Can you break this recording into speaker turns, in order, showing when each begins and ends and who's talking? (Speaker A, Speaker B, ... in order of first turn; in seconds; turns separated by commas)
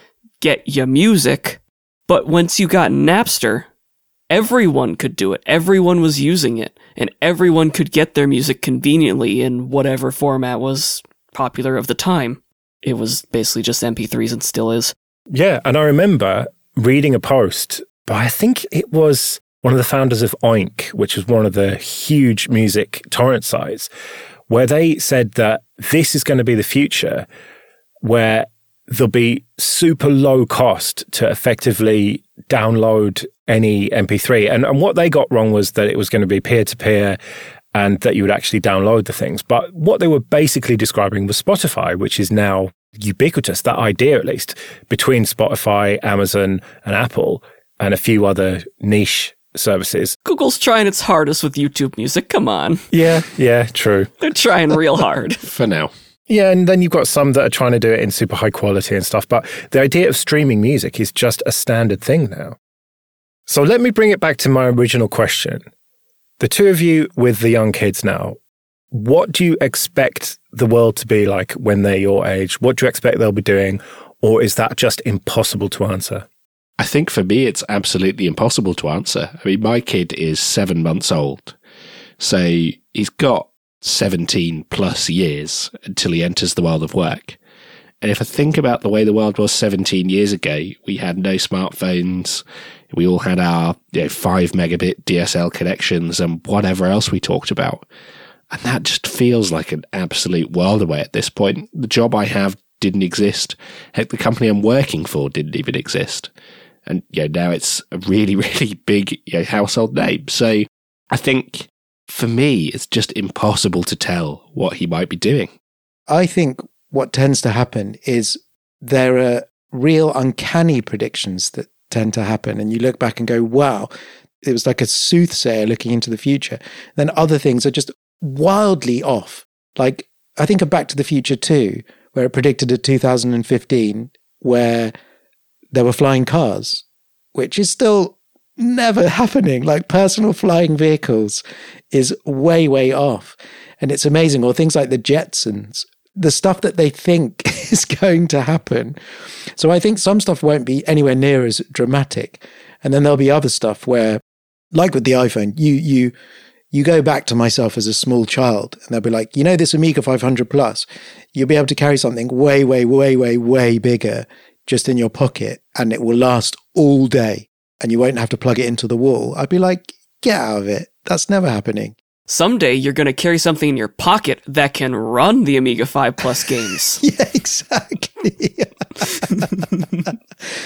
Speaker A: 0.4-3.7, Speaker A: 4.3-14.9, Speaker B: 15.3-23.9, Speaker B: 24.5-27.3, Speaker B: 28.0-37.2, Speaker B: 37.7-50.2, Speaker A: 50.2-52.9, Speaker B: 52.9-54.1, Speaker A: 54.2-55.4, Speaker C: 55.4-55.9, Speaker B: 56.3-62.6, Speaker B: 63.5-65.6, Speaker B: 66.4-68.4, Speaker B: 68.9-76.3, Speaker C: 76.8-81.6, Speaker C: 82.2-87.4, Speaker C: 88.0-97.9, Speaker C: 98.5-106.3, Speaker C: 106.9-115.5, Speaker D: 116.1-123.9, Speaker D: 124.4-134.9, Speaker D: 135.7-149.0, Speaker D: 149.6-154.2, Speaker D: 154.7-156.1, Speaker D: 156.7-171.9, Speaker A: 172.3-177.0, Speaker D: 177.0-180.1